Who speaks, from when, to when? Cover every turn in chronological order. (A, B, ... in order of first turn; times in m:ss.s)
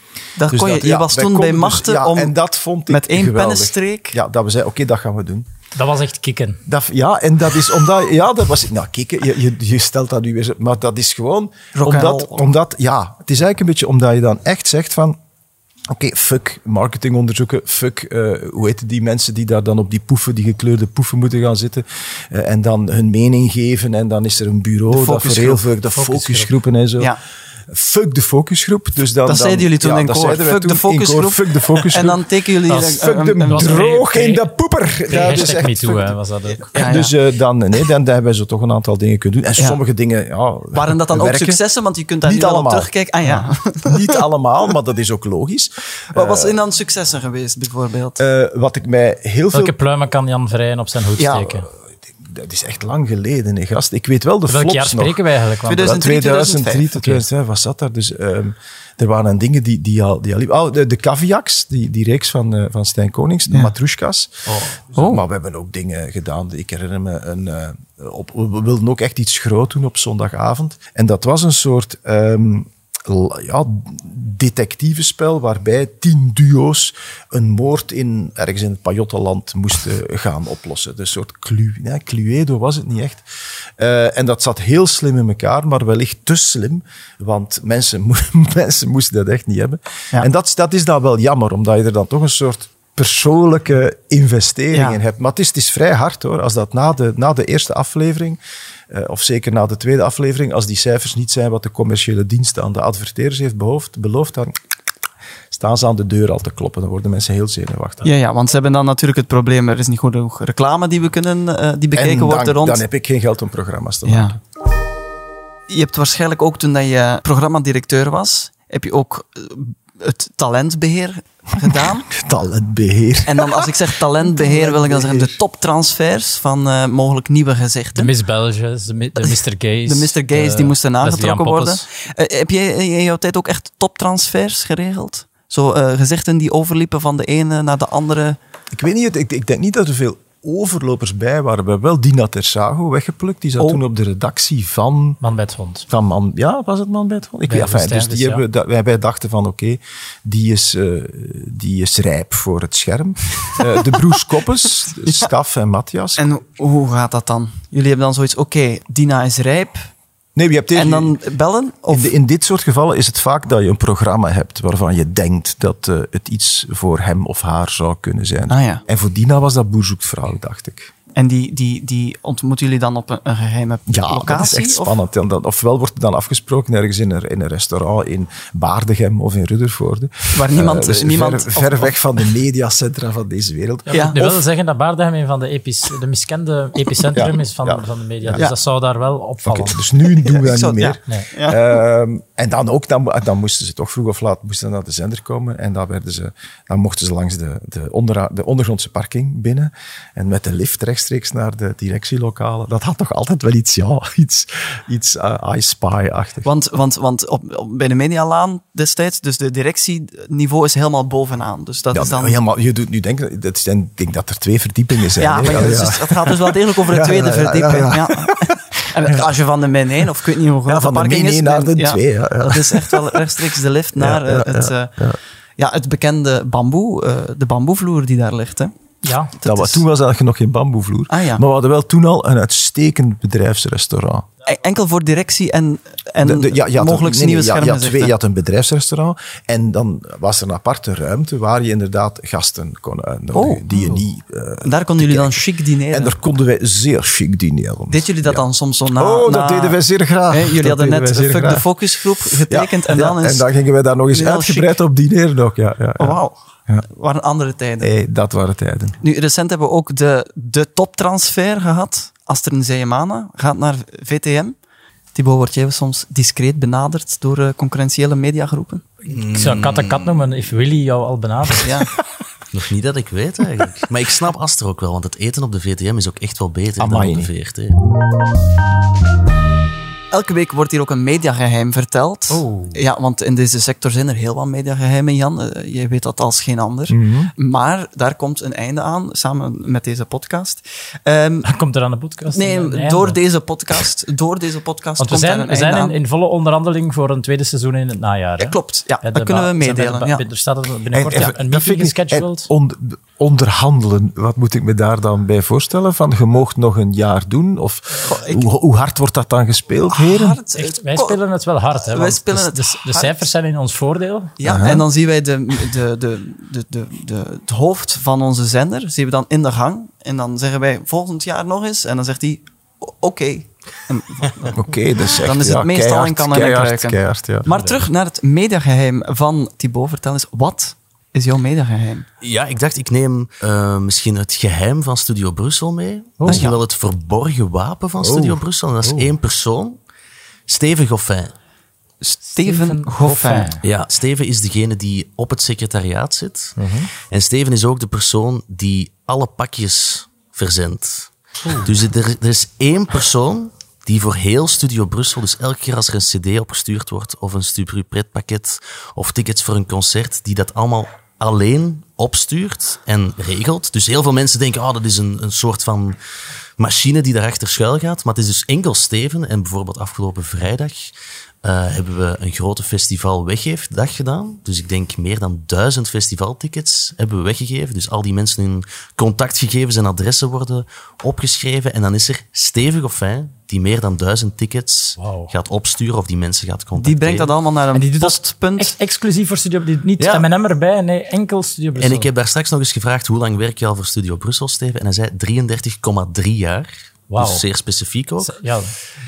0:00.4-0:02.3 A
0:00.5-0:05.5 B
0:02.9-0:04.2 A
0:05.7-0:06.6 C
0:06.6-0:15.2 B
0:11.7-0:12.5 A
0:15.9-0:27.1 B
0:24.9-0:25.6 A
0:25.9-0:26.5 C
0:27.7-0:32.2 B
0:29.2-0:33.9 A
0:32.7-0:34.4 C
0:33.0-0:36.2 B
0:35.1-0:36.7 C
0:36.7-0:37.1 A
0:36.7-0:41.6 B
0:40.7-0:44.1 A
0:42.2-0:42.9 B
0:43.8-0:46.6 B
0:46.1-0:48.2 A
0:48.2-0:49.8 B
0:49.5-0:51.7 C
0:51.1-0:55.2 B
0:54.5-0:56.1 C
0:55.7-0:56.9 A
0:55.8-1:23.2 B
0:56.9-0:57.2 C
1:04.4-1:04.8 D
1:05.0-1:05.2 A
1:23.8-1:38.4 B
1:34.7-1:35.0 A
1:38.9-1:44.5 B
1:45.5-1:48.1 B
1:48.0-1:52.8 A
1:51.9-1:54.4 B
1:54.0-1:54.4 A
1:55.7-2:02.1 A
2:02.1-2:05.4 B
2:03.2-2:08.1 A
2:07.9-2:11.8 C
2:09.2-2:18.4 A
2:18.7-2:25.2 B
2:25.2-2:25.9 C
2:25.9-2:36.3 B
2:27.4-2:28.4 C
2:36.2-2:39.8 A
2:40.4-2:41.2 B
2:40.7-2:42.1 A
2:41.9-2:50.9 B
2:48.5-2:48.8 A
2:51.1-2:54.9 A
2:53.9-3:04.1 B
3:00.3-3:02.0 A
3:03.9-3:09.8 C
3:03.9-3:04.4 A
3:07.1-3:08.5 B
3:09.4-3:26.5 B
3:10.2-3:11.7 A
3:26.4-3:32.4 A
3:31.9-3:39.2 B
3:35.2-3:44.9 A
3:40.6-3:43.3 B
3:44.0-3:45.2 B
3:45.6-3:48.7 A
3:49.0-3:49.3 C
3:49.4-3:49.8 A
3:49.4-3:54.2 B
3:51.1-3:51.4 A
3:54.4-3:58.1 A
3:56.2-4:16.8 B
4:03.3-4:04.0 A
4:04.6-4:06.1 A
4:07.9-4:09.8 A
4:10.3-4:13.4 A
4:14.1-4:14.8 A
4:16.0-4:17.9 A
4:17.8-4:19.0 B
4:19.0-4:24.5 A
4:25.1-4:28.8 A
4:29.1-4:30.2 D
4:29.1-4:31.7 C
4:31.6-4:31.9 A
4:32.5-4:37.8 D
4:36.8-4:37.3 B
4:40.1-4:51.5 A
4:42.3-4:42.8 C
4:46.9-4:47.3 B
4:51.4-4:53.2 C
4:52.3-4:56.0 A
4:55.0-5:02.5 C
4:58.4-5:00.2 A
5:00.9-5:10.4 B
5:08.0-5:08.4 A
5:09.9-5:11.2 A
5:10.5-5:14.4 C
5:11.8-5:13.2 A
5:14.4-5:32.0 A
5:14.4-5:14.8 B
5:24.5-5:27.5 B
5:27.5-5:27.9 C
5:32.2-5:39.8 D
5:36.3-5:36.6 A
5:38.0-5:38.4 B
5:38.8-5:39.1 C
5:40.5-5:41.3 D
5:42.0-5:43.5 A
5:42.4-5:43.6 C
5:43.6-5:46.6 D
5:46.6-5:46.9 B
5:47.1-6:06.0 D
6:06.6-6:10.9 D
6:11.4-6:27.3 D
6:25.0-6:25.3 C
6:26.8-6:28.7 A
6:27.7-6:32.1 C
6:30.0-6:30.3 A
6:31.8-6:38.4 D
6:37.1-6:37.4 C
6:38.2-6:38.7 C